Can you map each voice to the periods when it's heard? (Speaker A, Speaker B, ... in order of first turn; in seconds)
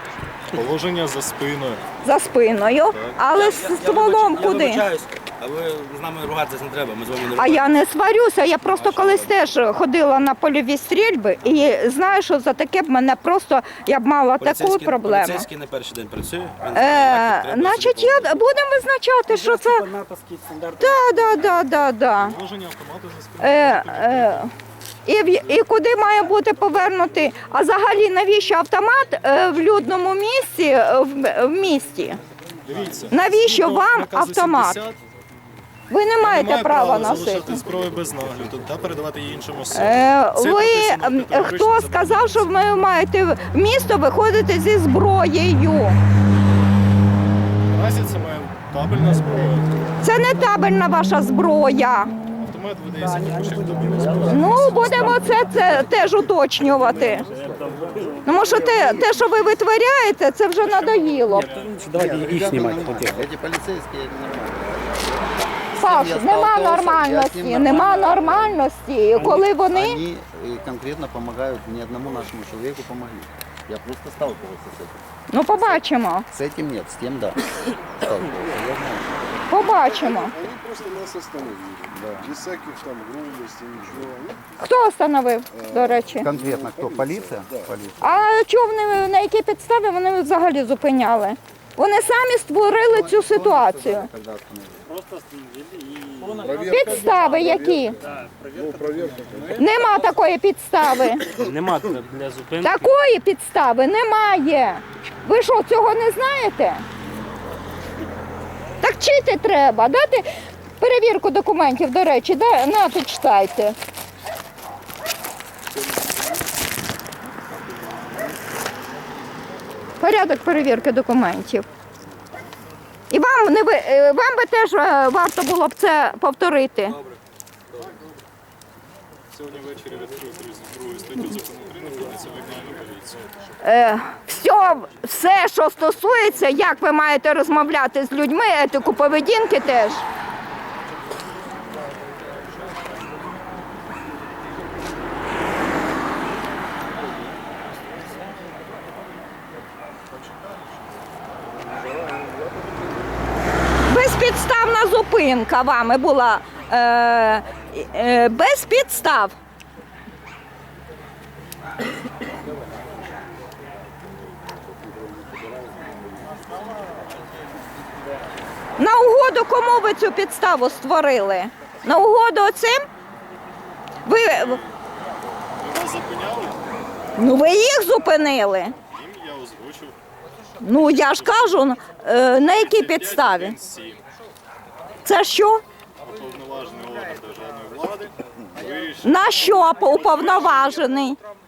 Speaker A: 0.5-1.9, 2.9-3.2, 22.2-24.5, 32.6-35.0, 36.2-42.5, 47.7-49.8, 52.3-55.2, 56.8-57.2, 60.6-62.8, 129.3-133.3, 174.3-174.6, 175.6-176.6, 178.8-179.9, 180.8-181.6, 182.4-184.0, 186.0-190.9
Speaker B: 2.0-4.8, 7.3-15.4, 16.7-19.8, 20.8-22.4, 23.4-24.5, 25.1-32.2, 33.1-34.8, 35.9-37.6, 39.7-46.0, 50.0-52.1, 54.3-57.2, 58.2-61.5, 65.8-70.0, 75.3-76.2, 79.5-80.3, 84.6-86.3, 88.0-94.1, 96.7-98.0, 99.5-101.3, 102.6-106.8, 108.8-110.3, 110.8-113.8, 120.0-121.6, 123.1-127.0, 133.6-140.0, 153.8-159.3, 168.8-172.8, 174.1-174.6, 177.2-178.7, 180.6-183.5, 185.1-185.6, 189.0-191.2
Speaker C: 3.3-7.8, 8.6-9.4, 14.4-18.4
Speaker D: 19.3-21.5, 52.9-55.6, 56.9-58.3, 61.3-63.2, 69.1-69.5, 95.5-99.9, 101.4-102.9
Speaker E: 53.9-54.7, 55.3-55.7, 57.2-59.5, 61.9-68.6, 69.7-75.0, 75.5-79.1, 81.9-82.3, 83.8-84.1, 86.2-88.0, 92.8-94.8
Speaker F: 79.8-84.4, 85.5-87.7, 96.4-97.9, 98.5-99.6